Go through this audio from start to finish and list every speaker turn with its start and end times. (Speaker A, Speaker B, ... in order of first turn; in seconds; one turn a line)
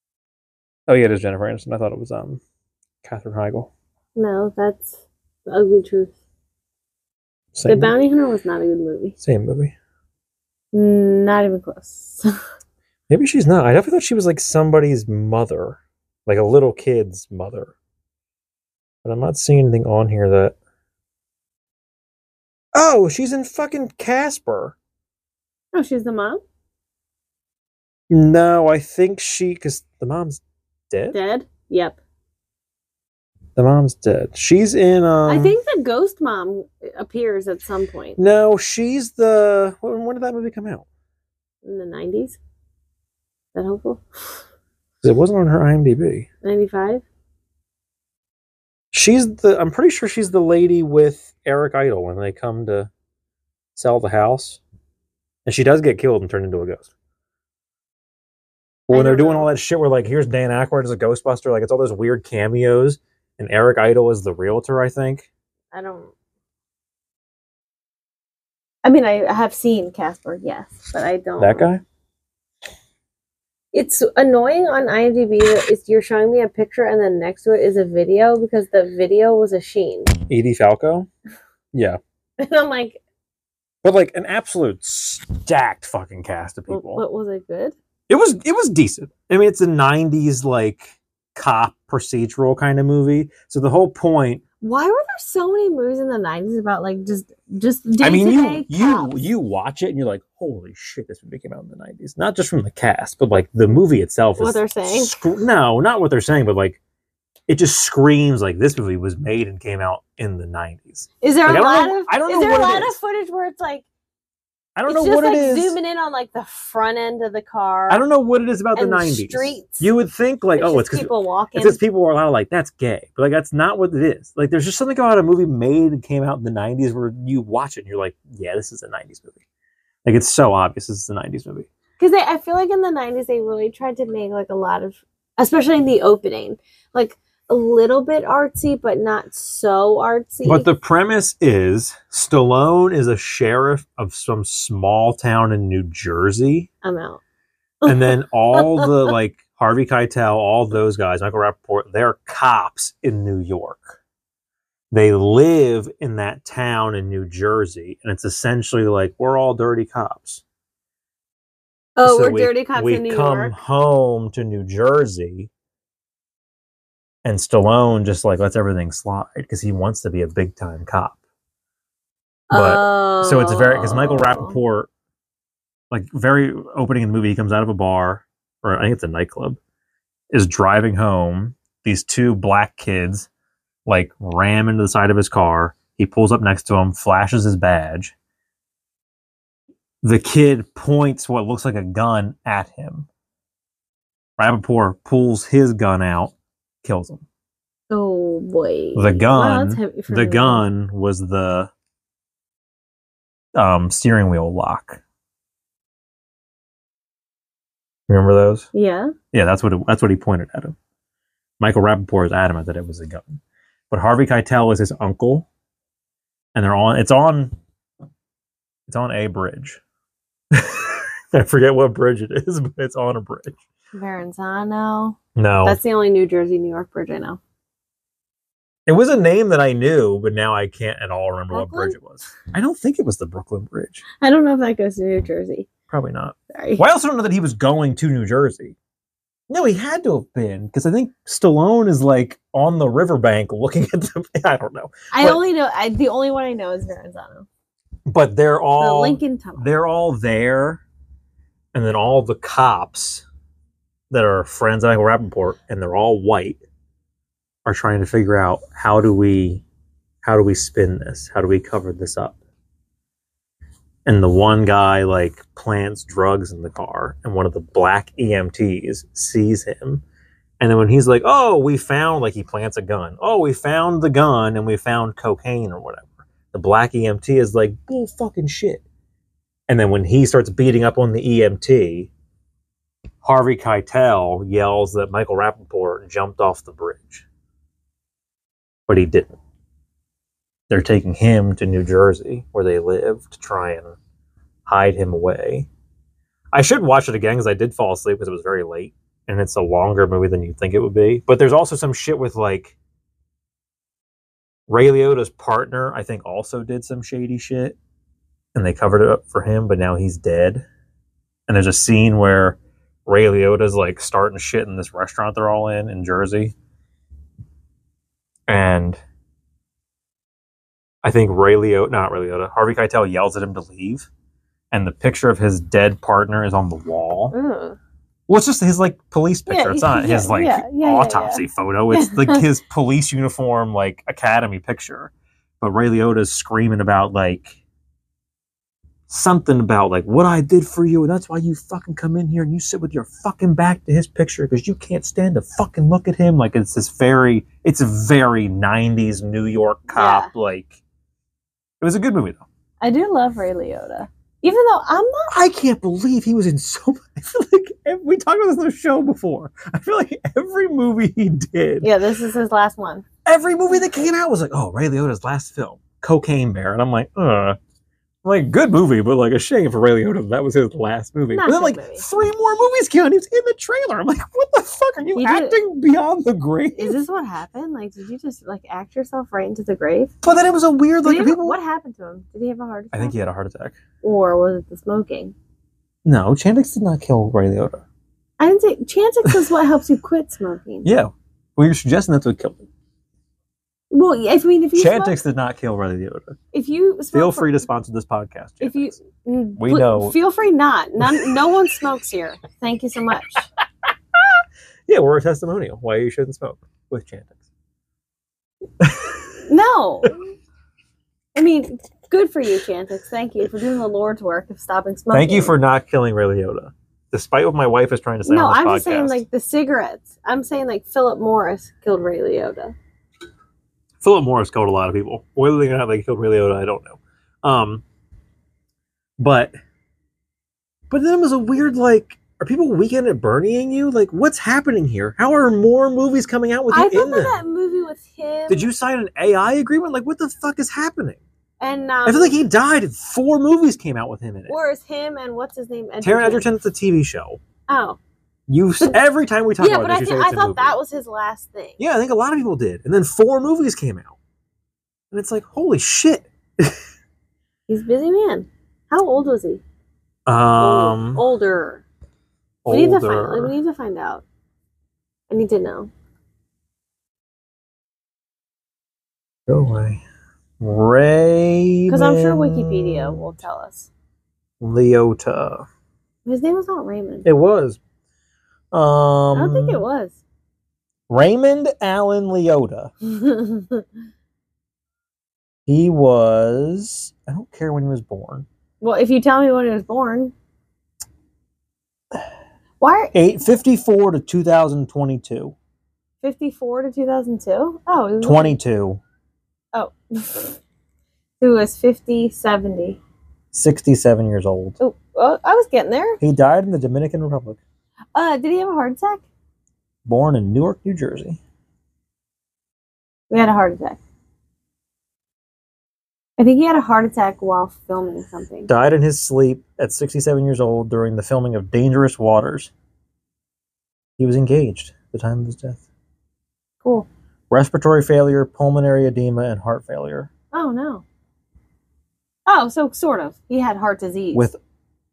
Speaker A: 0.9-2.4
Speaker A: 3.0-3.7
Speaker B: 4.2-6.1
Speaker A: 7.5-7.9
Speaker B: 7.7-9.2
Speaker A: 9.2-9.7
Speaker B: 10.7-12.3
Speaker A: 13.1-17.7
Speaker A: 19.0-20.5
Speaker A: 22.7-24.8
Speaker B: 25.7-26.4
Speaker A: 28.1-31.2
Speaker B: 31.1-32.0
Speaker A: 33.5-35.5
Speaker B: 35.2-38.2
Speaker A: 38.2-40.8
Speaker B: 41.6-42.4
Speaker B: 43.5-44.0
Speaker A: 45.0-46.3
Speaker B: 46.4-47.0
Speaker A: 48.9-52.9
Speaker A: 53.7-54.6
Speaker A: 55.4-56.9
Speaker A: 58.9-65.3
Speaker B: 58.9-59.5
Speaker B: 65.7-66.1
Speaker B: 68.8-71.7
Speaker A: 71.4-71.8
Speaker B: 73.7-80.1
Speaker A: 80.3-81.1
Speaker A: 81.7-82.0
Speaker B: 82.4-83.0
Speaker A: 83.8-87.0
Speaker B: 86.7-87.8
Speaker A: 88.1-94.4
Speaker B: 94.6-99.1
Speaker A: 98.0-106.8
Speaker B: 104.4-105.1
Speaker A: 107.5-113.0
Speaker B: 111.2-113.8
Speaker A: 114.8-115.8
Speaker B: 114.9-118.0
Speaker A: 117.9-129.4
Speaker B: 118.7-119.9
Speaker B: 120.6-121.8
Speaker A: 130.0-131.7
Speaker B: 132.0-140.7
Speaker A: 140.4-146.7
Speaker B: 146.8-147.2
Speaker B: 147.8-149.1
Speaker A: 147.8-154.0
Speaker A: 154.9-160.4
Speaker B: 162.0-163.5
Speaker A: 162.0-165.5
Speaker A: 167.2-171.2
Speaker B: 172.5-174.6
Speaker A: 172.5-174.9
Speaker A: 175.9-179.6
Speaker A: 180.3-183.3
Speaker A: 183.8-188.1
Speaker A: 190.0-193.1
Speaker A: 194.4-197.2
Speaker B: 197.9-200.6
Speaker A: 198.9-201.7
Speaker A: 203.5-205.0
Speaker A: 208.1-208.7
Speaker B: 208.7-209.1
Speaker A: 209.3-210.8
Speaker A: 211.6-215.5
Speaker A: 216.5-217.5
Speaker A: 218.9-219.8
Speaker A: 220.5-223.6
Speaker B: 223.9-227.4
Speaker A: 225.3-225.8
Speaker A: 228.9-234.0
Speaker B: 231.5-232.0
Speaker B: 234.2-235.7
Speaker A: 235.9-238.8
Speaker B: 236.5-236.8
Speaker A: 239.5-245.4
Speaker B: 245.1-247.5
Speaker A: 248.1-250.8
Speaker B: 248.8-249.7
Speaker A: 251.7-253.2
Speaker A: 254.1-256.6
Speaker A: 257.6-259.6
Speaker A: 260.2-262.4
Speaker A: 264.1-270.0
Speaker A: 270.6-278.8
Speaker A: 279.7-282.1
Speaker A: 283.2-287.2
Speaker A: 288.9-289.4
Speaker A: 290.7-294.0
Speaker A: 294.6-295.7
Speaker A: 296.5-302.8
Speaker A: 304.7-307.8
Speaker A: 308.5-310.6
Speaker A: 311.5-316.5
Speaker A: 318.5-319.0
Speaker A: 321.0-324.1
Speaker A: 324.7-327.3
Speaker B: 327.3-327.8
Speaker A: 328.3-337.6
Speaker B: 329.5-332.4
Speaker A: 339.1-350.8
Speaker B: 349.9-350.3
Speaker A: 351.8-352.4
Speaker B: 352.8-355.3
Speaker A: 355.3-361.9
Speaker B: 361.8-363.0
Speaker A: 363.2-367.6
Speaker A: 368.2-377.0
Speaker B: 371.3-372.0
Speaker B: 375.1-375.6
Speaker B: 376.7-380.2
Speaker A: 380.2-381.6
Speaker B: 381.0-383.2
Speaker A: 382.9-383.8
Speaker B: 384.0-385.3
Speaker A: 386.0-387.8
Speaker B: 388.4-390.9
Speaker A: 390.8-392.7
Speaker B: 393.9-395.2
Speaker A: 394.7-396.4
Speaker B: 396.5-397.6
Speaker A: 397.1-398.9
Speaker B: 398.6-403.4
Speaker A: 399.6-400.2
Speaker A: 401.0-401.4
Speaker A: 404.9-407.4
Speaker A: 408.8-409.3
Speaker B: 409.5-410.2
Speaker B: 411.3-415.5
Speaker A: 415.1-419.2
Speaker B: 418.2-422.7
Speaker A: 424.0-427.8
Speaker A: 429.2-429.5
Speaker A: 430.9-437.4
Speaker B: 436.7-438.7
Speaker A: 438.5-441.2
Speaker B: 441.6-442.4
Speaker A: 442.1-444.6
Speaker B: 444.5-446.4
Speaker A: 446.0-447.4
Speaker B: 447.7-448.0
Speaker A: 448.5-450.8
Speaker B: 449.6-451.8
Speaker A: 451.8-454.1
Speaker A: 455.1-456.8
Speaker B: 457.7-459.6
Speaker A: 460.2-461.2
Speaker B: 460.6-461.8
Speaker A: 462.6-463.5
Speaker B: 462.7-464.2
Speaker B: 465.3-465.9
Speaker A: 469.5-470.0
Speaker A: 470.6-473.3
Speaker B: 471.9-473.9
Speaker A: 474.6-475.6
Speaker B: 476.2-477.2
Speaker A: 477.2-477.8
Speaker A: 478.7-479.8
Speaker B: 479.3-480.2
Speaker A: 481.1-482.9
Speaker B: 483.0-483.9
Speaker A: 485.6-488.4
Speaker B: 488.8-490.3
Speaker B: 492.8-493.1
Speaker A: 493.1-495.5
Speaker B: 496.2-498.6
Speaker A: 498.2-499.0
Speaker B: 499.7-500.6
Speaker B: 501.4-503.0
Speaker A: 503.5-504.8
Speaker B: 504.8-506.2
Speaker A: 506.2-507.6
Speaker B: 508.1-509.2
Speaker A: 510.1-511.4
Speaker B: 513.3-514.0
Speaker B: 516.4-518.7
Speaker A: 518.7-522.7
Speaker A: 524.2-525.8
Speaker B: 526.8-527.1
Speaker A: 527.5-530.3
Speaker B: 530.5-531.0
Speaker B: 532.5-534.4